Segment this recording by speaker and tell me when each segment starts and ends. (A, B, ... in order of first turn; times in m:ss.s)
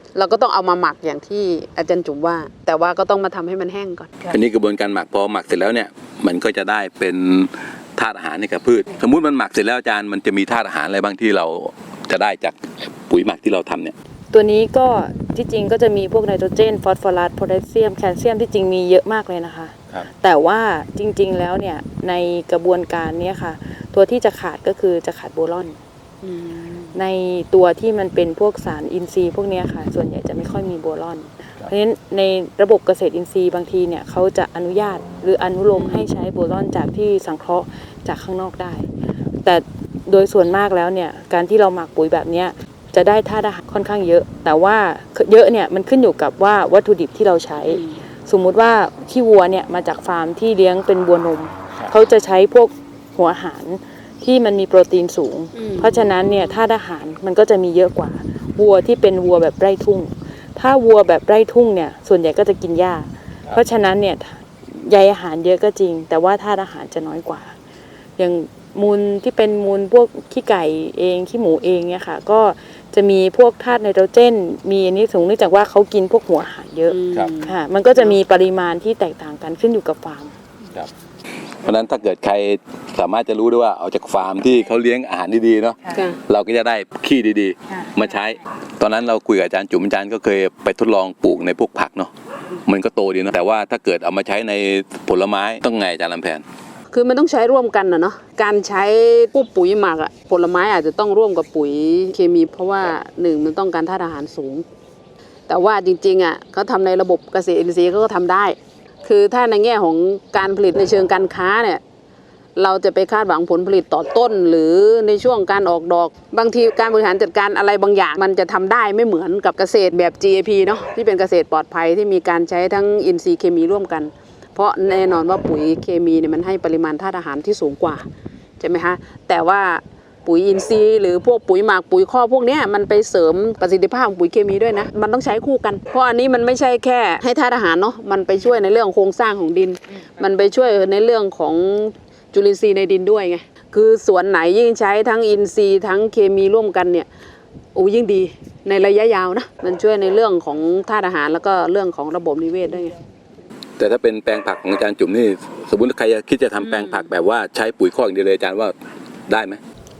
0:00.1-0:04.4 A
0:04.3-0:13.9 B
0:14.3-0:25.8 C
0:26.2-0:27.0 A
0:26.9-0:38.9 C
0:35.7-0:36.1 A
0:39.4-1:07.5 C
0:47.7-0:48.0 A
0:55.5-0:56.6 A
1:08.2-1:20.3 C
1:16.9-1:18.2 A
1:21.6-1:32.1 B
1:25.8-1:26.1 C
1:25.9-1:26.2 A
1:27.7-1:28.2 C
1:32.6-1:36.4 B
1:36.9-1:44.6 A
1:45.5-1:51.8 A
1:52.6-2:08.0 A
2:08.6-2:27.1 A
2:27.7-2:32.9 A
2:33.8-2:38.7 B
2:36.6-2:37.1 A
2:39.3-2:39.6 B